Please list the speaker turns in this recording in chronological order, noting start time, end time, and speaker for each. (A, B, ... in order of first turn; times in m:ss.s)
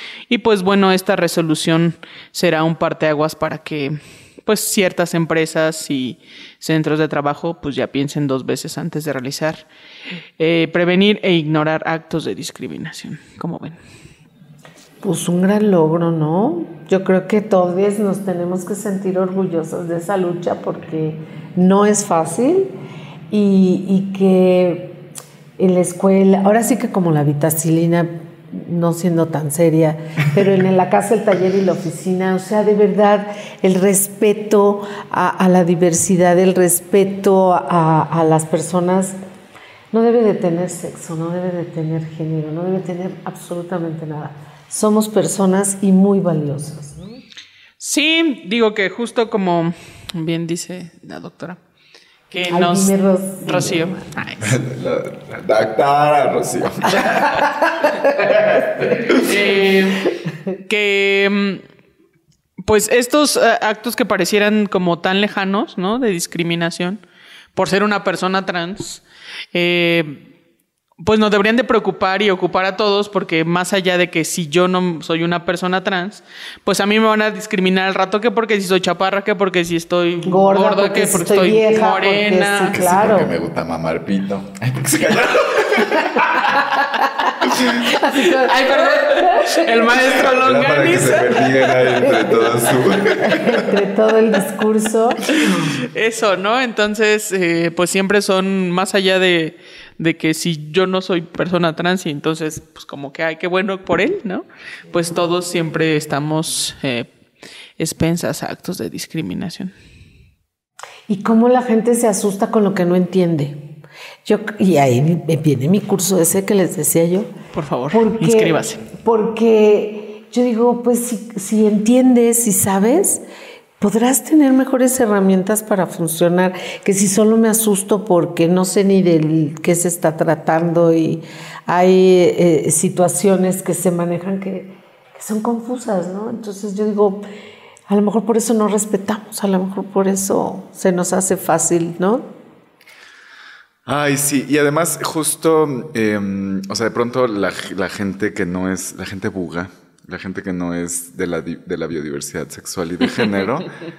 0:00.3-0:09.7 A
0:10.4-0:13.8 A
0:15.0-0:22.7 B
0:23.3-0:25.0 B
0:25.6-0:39.2 B
0:39.9-0:47.2 B
0:47.8-0:51.6 A
0:52.3-0:54.6 A
0:52.5-0:54.2 B
0:54.4-0:57.5 C
0:58.3-1:00.1 A
1:00.7-1:01.6 A
1:02.6-1:07.0 A
1:07.6-1:10.3 A
1:11.0-1:22.8 A
1:20.3-1:23.3 B
1:22.7-1:26.4 C
1:27.7-1:29.7 B
1:27.9-1:31.7 A
1:30.2-1:33.7 C
1:32.0-1:32.5 B
1:33.1-1:35.2 B
1:35.3-1:47.1 A
1:47.8-1:49.7 A
1:51.1-1:53.7 B
1:54.2-1:57.3 B
1:57.5-1:58.8 A
1:57.9-2:03.2 B
2:03.8-2:17.2 B
2:17.9-2:22.3 B
2:23.9-2:33.7 C